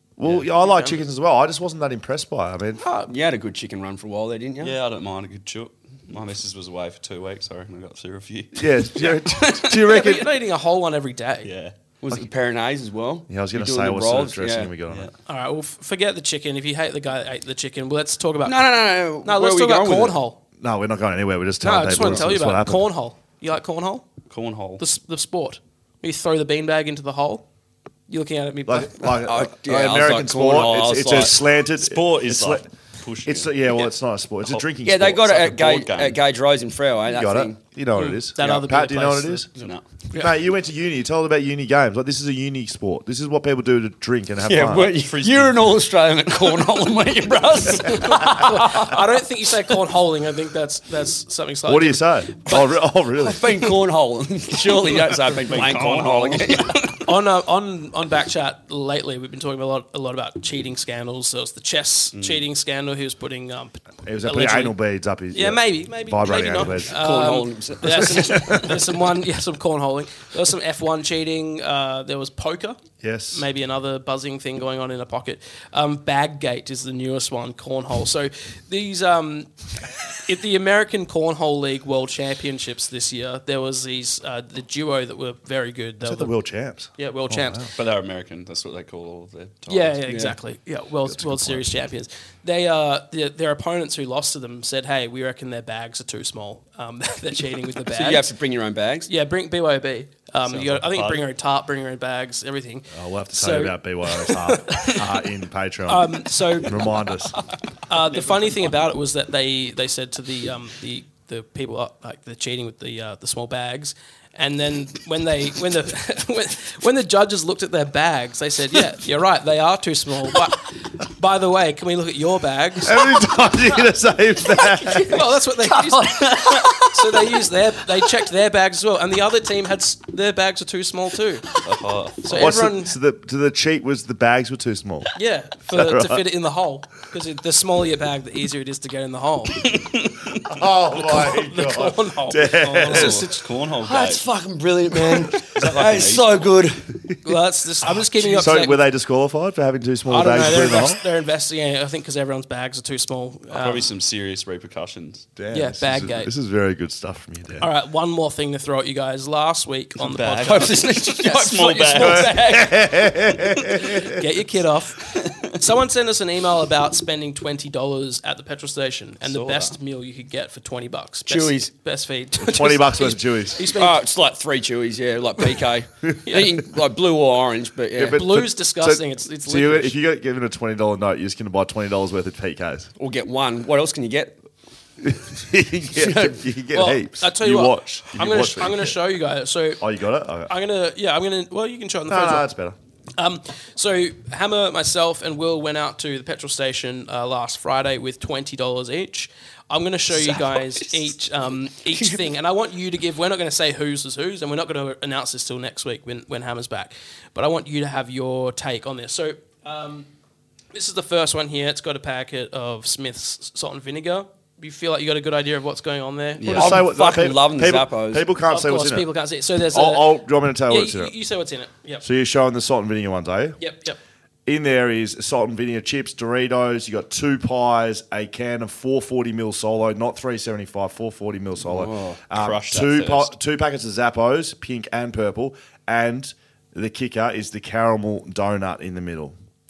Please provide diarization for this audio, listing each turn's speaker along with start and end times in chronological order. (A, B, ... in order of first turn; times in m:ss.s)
0:00.2-0:02.8 A
0:00.5-0:01.0 B
0:02.8-0:03.1 B
0:03.1-0:04.7 C
0:04.6-0:10.0 D
0:08.6-0:10.4 A
0:09.8-0:11.5 B
0:11.4-0:11.7 D
0:12.0-0:14.7 C
0:13.3-0:15.1 A
0:15.3-0:20.4 B
0:18.4-0:20.2 C
0:20.6-0:22.9 A
0:21.6-0:24.0 B
0:24.3-0:24.8 D
0:24.8-0:27.4 B
0:28.1-0:29.1 B
0:28.7-0:32.6 A
0:29.2-0:31.4 C
0:31.8-0:33.9 D
0:33.2-0:35.3 A
0:34.4-0:36.2 D
0:34.8-0:37.6 C
0:37.1-0:39.5 A
0:38.0-0:39.5 B
0:39.6-0:39.9 D
0:40.1-0:44.9 A
0:44.4-0:48.9 C
0:44.8-0:45.7 D
0:47.9-0:52.7 B
0:51.6-0:53.4 A
0:53.2-0:56.8 C
0:55.2-0:57.0 D
0:56.9-1:04.8 B
1:02.1-1:02.4 D
1:04.0-1:06.9 A
1:05.3-1:12.8 B
1:06.9-1:08.4 C
1:08.1-1:08.8 A
1:13.0-1:13.5 A
1:13.3-1:26.3 B
1:26.0-1:27.7 A
1:27.0-1:27.7 B
1:27.7-1:30.0 D
1:29.7-1:38.3 B
1:30.0-1:30.4 C
1:31.0-1:31.7 A
1:37.9-1:39.1 C
1:39.1-1:45.2 B
1:40.4-1:41.2 D
1:42.9-1:47.4 A
1:45.9-1:47.0 B
1:47.9-2:03.3 B
1:48.1-1:48.7 D
2:02.8-2:05.3 A
2:04.6-2:11.6 B
2:05.9-2:07.3 D
2:11.6-2:12.6 D
2:12.2-2:13.0 B
2:12.3-2:15.1 A
2:15.1-2:19.7 B
2:15.7-2:16.2 A
2:19.6-2:20.4 D
2:20.5-2:23.2 A
2:21.0-2:23.4 B
2:22.6-2:24.2 D
2:23.8-2:27.0 C
2:25.3-2:26.5 D
2:27.2-2:28.8 B
2:27.9-2:28.4 D
2:28.3-2:31.0 A
2:30.1-2:33.9 B
2:33.5-2:35.3 D
2:35.4-2:37.7 A
2:35.5-2:36.3 B
2:37.6-2:41.1 B
2:40.0-2:42.5 D
2:40.4-2:42.7 C
2:41.9-2:44.2 A
2:44.0-2:54.0 B
2:45.0-2:45.5 D
2:49.2-2:49.8 D
2:51.2-2:51.7 C
2:52.4-2:53.6 A
2:53.7-2:58.2 C
2:56.3-2:56.6 B
2:58.0-3:02.9 A
2:58.1-3:00.0 B
3:03.0-3:04.4 C
3:05.0-3:09.0 A
3:05.9-3:06.4 C
3:06.7-3:09.8 B
3:09.8-3:10.5 A
3:10.5-3:12.5 B
3:12.1-3:12.8 A
3:13.2-3:30.1 B
3:21.9-3:22.3 C
3:30.7-3:36.7 B
3:36.4-3:36.8 D
3:36.5-3:39.1 A
3:36.5-3:38.2 C
3:38.5-3:42.0 B
3:39.7-3:41.1 A
3:42.0-3:43.6 A
3:43.6-3:44.0 B
3:44.4-3:59.4 A
3:51.6-3:52.2 C
3:52.3-3:53.3 D